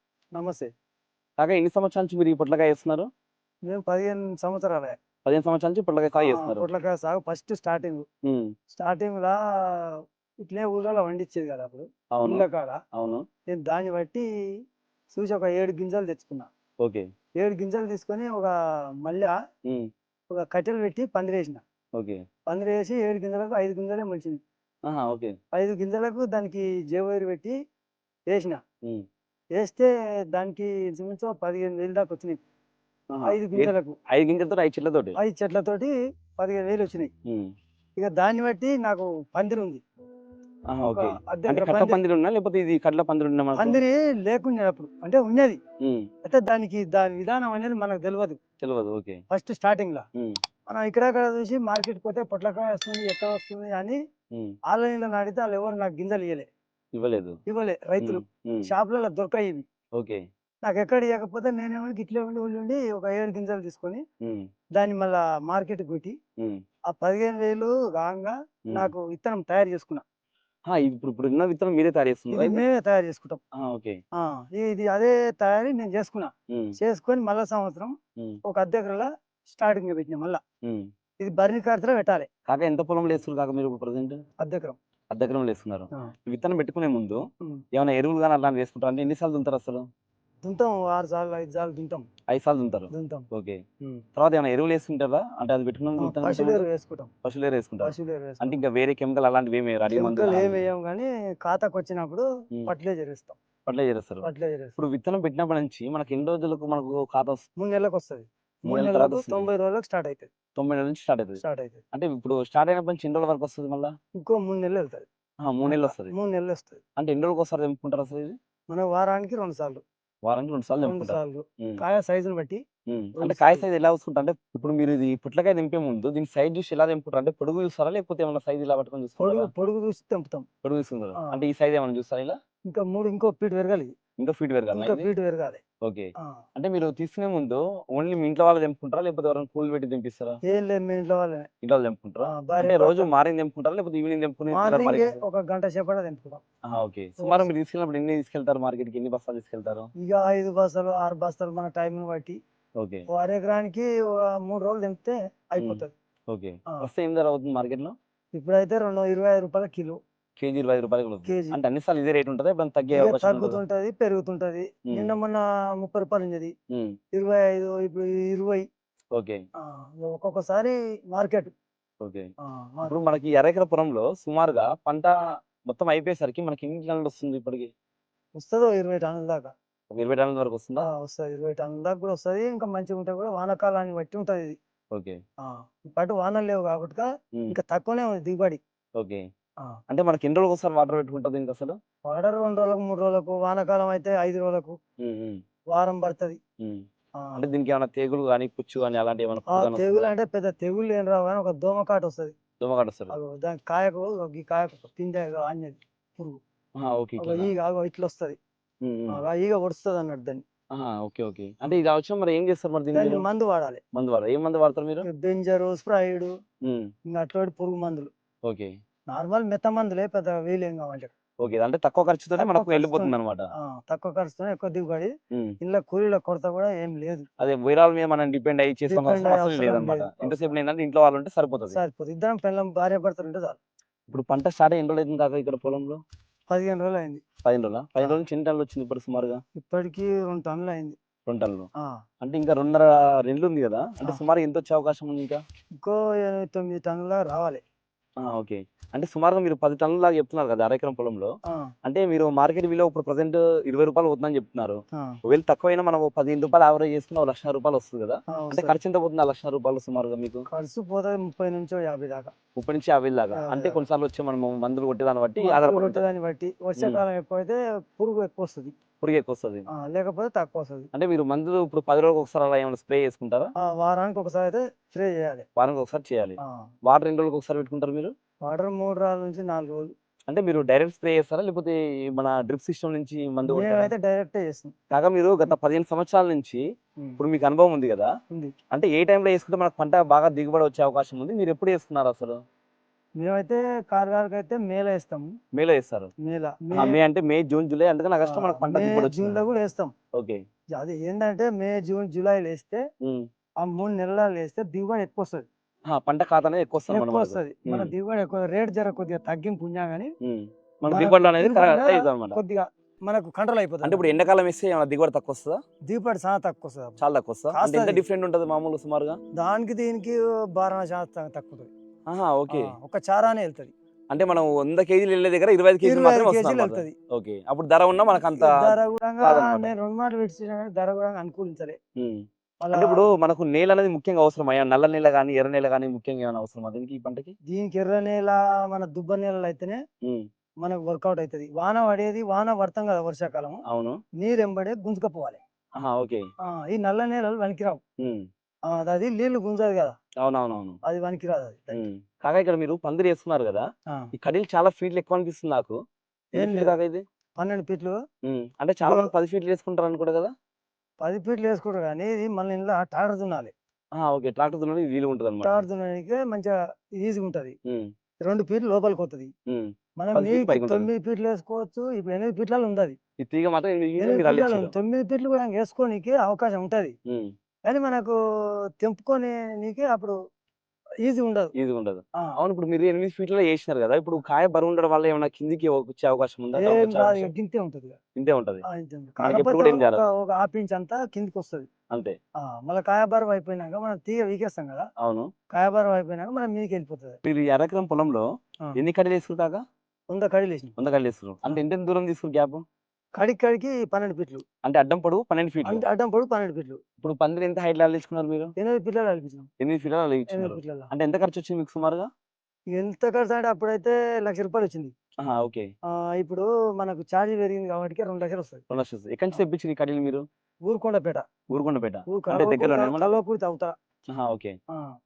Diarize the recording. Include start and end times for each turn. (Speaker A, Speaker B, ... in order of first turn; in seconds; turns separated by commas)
Speaker A: 0.3-0.7, Speaker B: 1.4-3.1, Speaker A: 3.7-5.0, Speaker B: 5.2-6.6, Speaker A: 6.2-8.1, Speaker B: 8.2-8.5, Speaker A: 8.7-12.8, Speaker B: 12.1-13.2, Speaker A: 13.5-14.2, Speaker A: 15.1-16.5, Speaker A: 17.4-19.3, Speaker A: 20.3-21.6, Speaker A: 22.5-24.4, Speaker B: 24.9-25.3, Speaker A: 25.5-27.5, Speaker A: 28.3-28.6, Speaker A: 29.6-32.4, Speaker B: 33.1-35.2, Speaker A: 33.2-34.0, Speaker A: 35.2-37.1, Speaker A: 38.0-39.8, Speaker B: 40.7-43.8, Speaker A: 40.9-42.0, Speaker A: 43.5-45.6, Speaker B: 45.8-46.1, Speaker A: 46.2-48.4, Speaker B: 48.6-49.2, Speaker A: 49.3-50.0, Speaker A: 50.7-54.0, Speaker A: 54.7-56.5, Speaker B: 56.9-57.4, Speaker A: 57.5-59.6, Speaker B: 58.0-58.7, Speaker B: 60.0-60.2, Speaker A: 60.6-64.0, Speaker B: 64.2-64.5, Speaker A: 64.8-66.2, Speaker A: 66.9-70.0, Speaker B: 70.7-72.6, Speaker A: 72.3-73.4, Speaker B: 73.5-74.0, Speaker A: 74.2-77.9, Speaker B: 76.5-76.8, Speaker A: 78.4-80.4, Speaker A: 81.2-82.3, Speaker B: 82.5-84.2, Speaker A: 84.4-84.8, Speaker B: 85.1-87.2, Speaker B: 87.7-89.8, Speaker A: 90.4-92.1, Speaker B: 92.3-93.6, Speaker A: 92.9-93.2, Speaker B: 94.2-96.6, Speaker A: 96.0-97.1, Speaker B: 97.2-100.7, Speaker A: 97.8-98.6, Speaker A: 99.9-103.4, Speaker B: 103.7-104.2, Speaker A: 104.2-104.8, Speaker B: 104.8-107.4, Speaker A: 107.6-110.3, Speaker B: 108.7-109.5, Speaker B: 110.5-111.4, Speaker A: 111.4-111.8, Speaker B: 111.9-113.9, Speaker A: 114.2-115.0, Speaker B: 115.4-116.1, Speaker A: 115.7-116.8, Speaker B: 117.0-118.3, Speaker A: 118.7-119.8, Speaker B: 120.2-121.8, Speaker A: 120.8-122.6, Speaker B: 122.9-129.5, Speaker A: 123.2-123.6, Speaker A: 129.2-130.4, Speaker B: 130.6-132.4, Speaker A: 131.2-131.4, Speaker A: 132.7-133.9, Speaker B: 134.2-135.1, Speaker A: 134.7-135.6, Speaker B: 135.8-140.4, Speaker A: 140.4-141.5, Speaker B: 141.6-145.2, Speaker A: 142.2-143.1, Speaker A: 144.5-146.4, Speaker B: 146.7-149.9, Speaker A: 147.2-147.5, Speaker A: 150.0-152.4, Speaker B: 152.8-153.0, Speaker A: 153.1-155.9, Speaker B: 155.6-157.9, Speaker A: 158.3-160.0, Speaker B: 160.4-163.6, Speaker A: 161.2-161.6, Speaker A: 162.9-166.5, Speaker B: 166.7-166.9, Speaker A: 167.1-168.7, Speaker B: 169.1-169.4, Speaker A: 169.6-171.5, Speaker B: 172.0-172.3, Speaker A: 172.4-172.9, Speaker B: 172.8-177.7, Speaker A: 178.3-179.5, Speaker B: 179.9-180.9, Speaker A: 180.8-184.6, Speaker B: 184.9-185.2, Speaker A: 185.4-188.6, Speaker B: 189.0-189.2, Speaker B: 189.9-191.8, Speaker A: 192.1-194.8, Speaker B: 195.0-195.4, Speaker A: 195.7-196.4, Speaker B: 197.3-200.1, Speaker A: 199.5-202.3, Speaker B: 202.6-203.2, Speaker A: 203.1-206.4, Speaker B: 206.8-207.5, Speaker A: 207.2-208.4, Speaker B: 208.8-209.2, Speaker A: 209.1-210.4, Speaker B: 210.7-213.2, Speaker A: 212.9-213.8, Speaker B: 213.9-215.1, Speaker A: 215.0-216.3, Speaker A: 217.1-218.1, Speaker B: 218.4-218.7, Speaker A: 219.1-221.1, Speaker B: 221.4-223.5, Speaker A: 222.4-227.3, Speaker B: 225.3-225.6, Speaker B: 227.4-231.8, Speaker A: 228.9-230.5, Speaker A: 231.7-233.6, Speaker B: 234.1-236.0, Speaker A: 236.5-237.2, Speaker B: 237.4-239.4, Speaker A: 239.6-240.9, Speaker B: 241.2-241.7, Speaker B: 242.2-245.4, Speaker A: 245.8-247.6, Speaker B: 248.2-251.3, Speaker B: 251.8-260.5, Speaker A: 258.3-258.8, Speaker A: 260.5-262.3, Speaker B: 262.5-266.0, Speaker A: 263.3-263.8, Speaker A: 265.4-268.7, Speaker B: 269.0-269.6, Speaker A: 269.7-270.9, Speaker B: 270.9-273.5, Speaker A: 273.6-275.4, Speaker B: 275.6-278.1, Speaker A: 276.4-276.6, Speaker A: 278.4-279.9, Speaker B: 280.3-283.9, Speaker A: 283.5-284.7, Speaker B: 284.9-286.6, Speaker B: 287.2-288.1, Speaker B: 288.7-292.4, Speaker A: 293.2-295.3, Speaker B: 295.5-296.1, Speaker A: 296.2-297.0, Speaker B: 296.7-299.4, Speaker A: 298.2-299.9, Speaker A: 300.7-302.8, Speaker B: 303.0-303.3, Speaker A: 303.6-305.4, Speaker B: 305.9-307.9, Speaker A: 306.9-310.1, Speaker B: 310.2-312.4, Speaker A: 310.9-314.0, Speaker B: 313.8-315.6, Speaker A: 315.9-317.0, Speaker B: 317.0-319.2, Speaker A: 317.5-318.0, Speaker A: 319.3-321.7, Speaker B: 322.1-322.7, Speaker A: 322.5-323.7, Speaker B: 324.1-329.7, Speaker A: 325.8-326.9, Speaker A: 328.3-331.8, Speaker B: 332.0-337.3, Speaker A: 332.6-333.1, Speaker A: 337.5-339.8, Speaker A: 340.6-343.6, Speaker B: 343.6-344.0, Speaker A: 344.2-345.4, Speaker B: 345.8-346.2, Speaker A: 346.4-347.8, Speaker B: 348.0-348.2, Speaker A: 348.7-350.0, Speaker B: 350.2-350.8, Speaker A: 350.8-351.8, Speaker B: 351.7-353.6, Speaker B: 354.2-355.8, Speaker A: 356.3-356.7, Speaker B: 356.3-357.0, Speaker A: 357.4-358.0, Speaker B: 358.2-360.3, Speaker A: 361.0-363.5, Speaker B: 363.9-365.6, Speaker A: 365.4-367.6, Speaker A: 368.2-369.3, Speaker B: 369.5-370.9, Speaker A: 370.0-373.0, Speaker B: 373.2-374.7, Speaker A: 374.0-376.9, Speaker A: 377.6-378.2, Speaker A: 378.8-380.1, Speaker A: 381.0-381.5, Speaker B: 381.5-387.3, Speaker A: 386.5-388.0, Speaker B: 388.1-388.6, Speaker A: 388.6-391.7, Speaker B: 389.2-390.0, Speaker B: 391.9-392.1, Speaker A: 392.4-394.9, Speaker B: 395.0-395.3, Speaker A: 395.5-397.2, Speaker B: 397.2-398.2, Speaker B: 398.8-399.6, Speaker A: 400.1-400.7, Speaker B: 400.8-402.6, Speaker A: 403.1-404.4, Speaker B: 404.6-405.8, Speaker A: 405.6-406.8, Speaker B: 407.0-408.5, Speaker A: 408.6-409.5, Speaker B: 409.6-412.1, Speaker A: 410.3-410.9, Speaker A: 412.7-414.9, Speaker B: 415.2-415.7, Speaker A: 415.9-418.7, Speaker B: 418.7-420.2, Speaker A: 420.7-421.3, Speaker B: 421.5-423.1, Speaker A: 422.1-423.7, Speaker B: 424.1-424.6